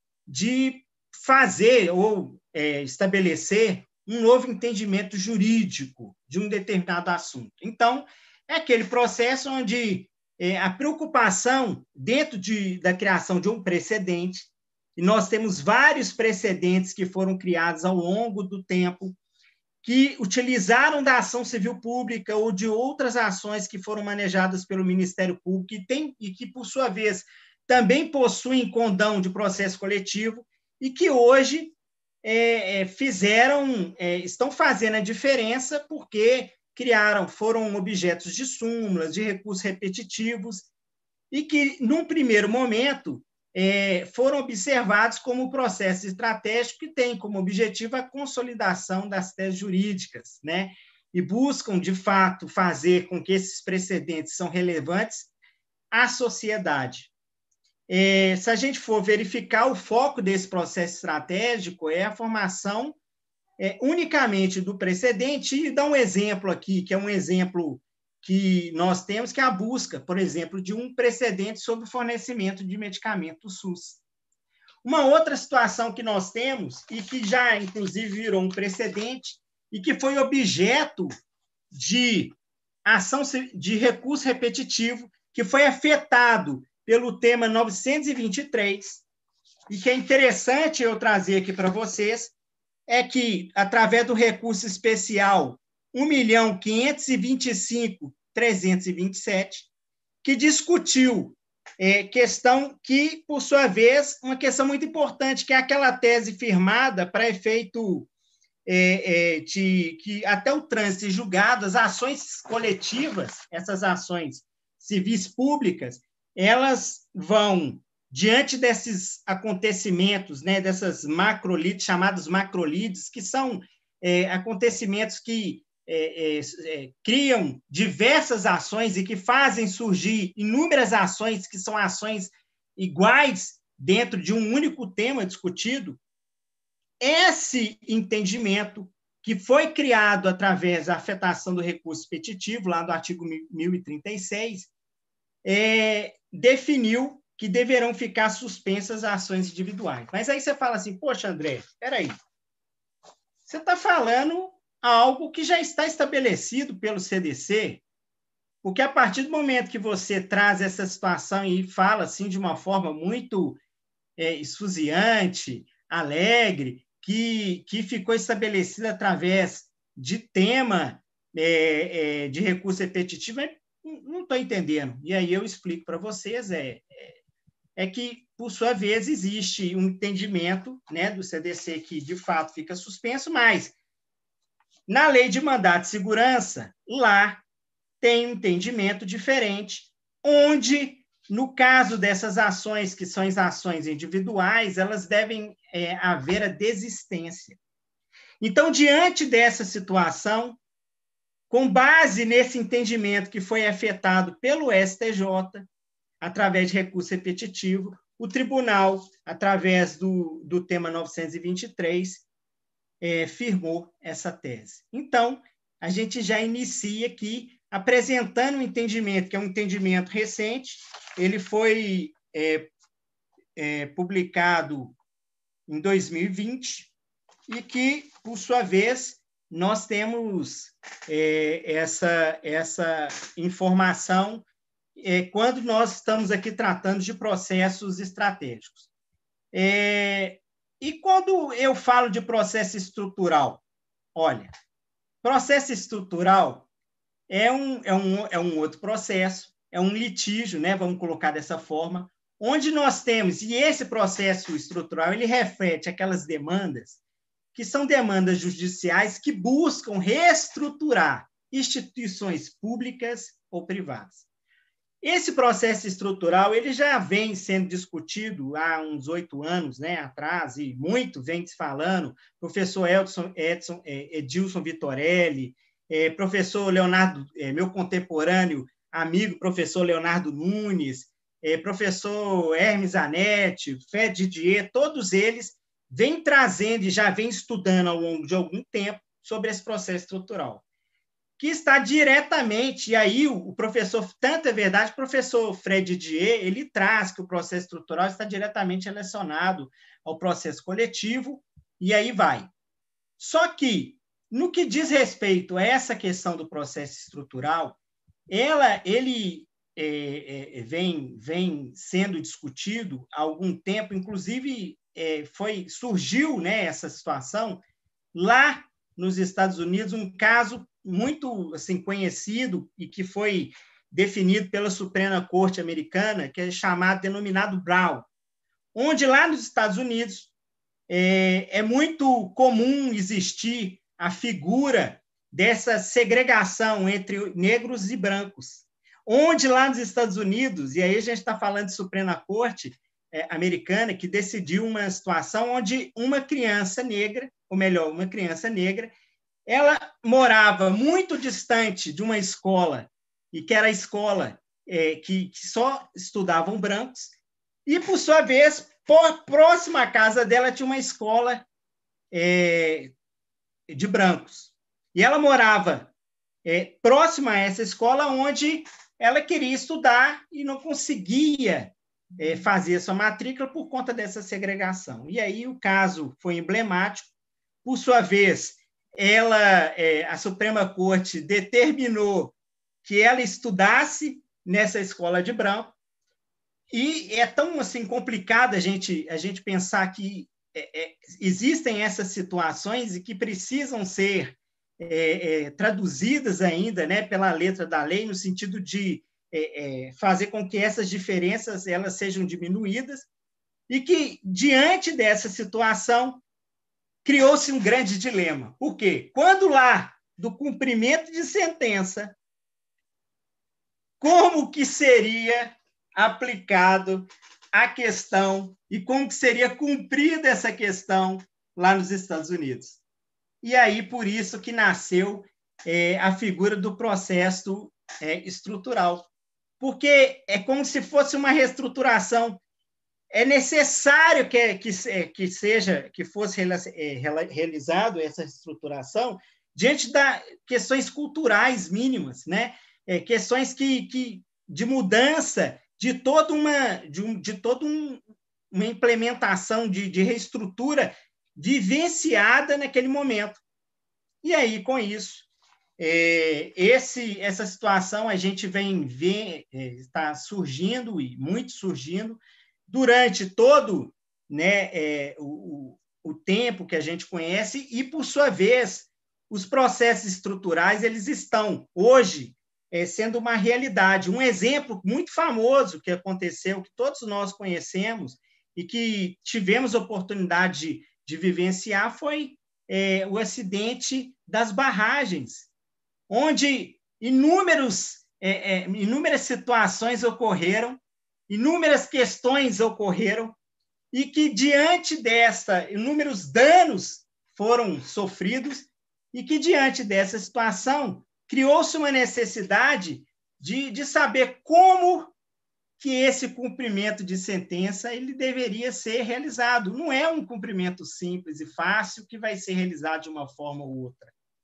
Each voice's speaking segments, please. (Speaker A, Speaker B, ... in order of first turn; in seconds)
Speaker A: 0.3-19.1, 19.8-40.6, 41.3-55.3, 55.9-57.1, 57.9-62.9, 63.6-74.0, 74.8-81.1, 81.8-82.3, 82.9-89.0, 89.7-92.3, 92.9-99.7, 100.2-108.1, 108.7-136.0, 137.1-144.6, 145.4-152.1, 153.5-157.7, 158.6-163.6, 164.2-177.1, 177.8-183.7, 184.9-187.4, 188.0-197.6, 198.4-200.5, 201.5-205.6, 206.2-211.8, 213.1-222.6, 223.7-224.6, 226.1-226.7, 227.9-228.7, 229.7-230.6, 231.2-234.1, 235.1-238.7, 239.6-240.3, 240.9-243.2, 245.5-246.3, 247.5-251.8, 252.7-256.7, 257.6-263.6, 265.3-275.4, 276.0-280.6, 282.9-284.7, 288.4-290.3, 291.6-295.5, 296.1-296.5, 297.9-298.4, 305.7-306.0, 309.9-310.5, 311.6-313.1, 314.0-314.4, 314.9-315.8, 321.2-321.5, 322.1-323.5, 324.2-327.8, 329.1-329.9, 331.1-334.0, 335.6-338.1, 339.7-341.8, 343.4-348.7, 349.8-352.4, 354.8-356.4, 358.0-361.0, 362.3-362.8, 365.2-365.6, 366.6-368.2, 369.1-370.8, 372.4-372.8, 379.4-380.1, 380.7-381.9, 384.0-384.4, 391.0-392.1, 395.0-398.5, 399.4-402.7, 404.0-406.0, 407.1-409.4, 409.9-411.6, 414.5-415.0, 416.1-416.8, 417.8-420.9, 429.9-432.1, 433.4-438.4, 439.8-441.7, 443.2-447.4, 455.8-458.5, 459.2-459.8, 464.6-466.5, 469.6-472.0, 472.9-477.9, 478.9-480.3, 480.8-482.0, 482.8-485.1, 486.3-490.7, 491.5-492.9, 494.1-498.2, 499.4-502.8, 503.7-504.7, 505.8-512.9
Speaker B: 85.1-85.3, 86.6-86.9, 98.1-98.4, 117.8-118.1, 133.5-133.8, 138.7-139.4, 165.6-165.9, 166.7-167.1, 169.6-170.1, 177.8-178.4, 189.8-190.3, 191.0-191.5, 206.2-212.2, 213.0-215.2, 216.8-219.6, 221.2-221.6, 222.1-222.4, 223.6-224.9, 225.7-226.9, 227.5-230.5, 231.1-234.4, 235.1-238.7, 240.8-243.6, 244.2-244.5, 245.2-246.6, 247.3-254.7, 255.9-257.0, 257.6-264.1, 265.0-290.6, 291.4-302.5, 303.2-307.8, 308.3-317.6, 318.1-328.1, 328.8-330.3, 330.9-348.9, 349.5-357.1, 357.7-361.4, 362.1-362.9, 363.7-365.8, 366.5-371.7, 372.2-377.1, 377.6-382.3, 382.9-385.7, 386.7-403.0, 403.7-406.2, 407.1-412.1, 414.0-415.4, 416.0-416.9, 417.6-422.8, 423.4-429.1, 429.6-432.4, 433.1-447.9, 448.5-453.4, 454.2-455.3, 455.8-485.5, 486.1-488.3, 488.9-490.7, 491.3-493.3, 493.9-505.1, 505.8-514.1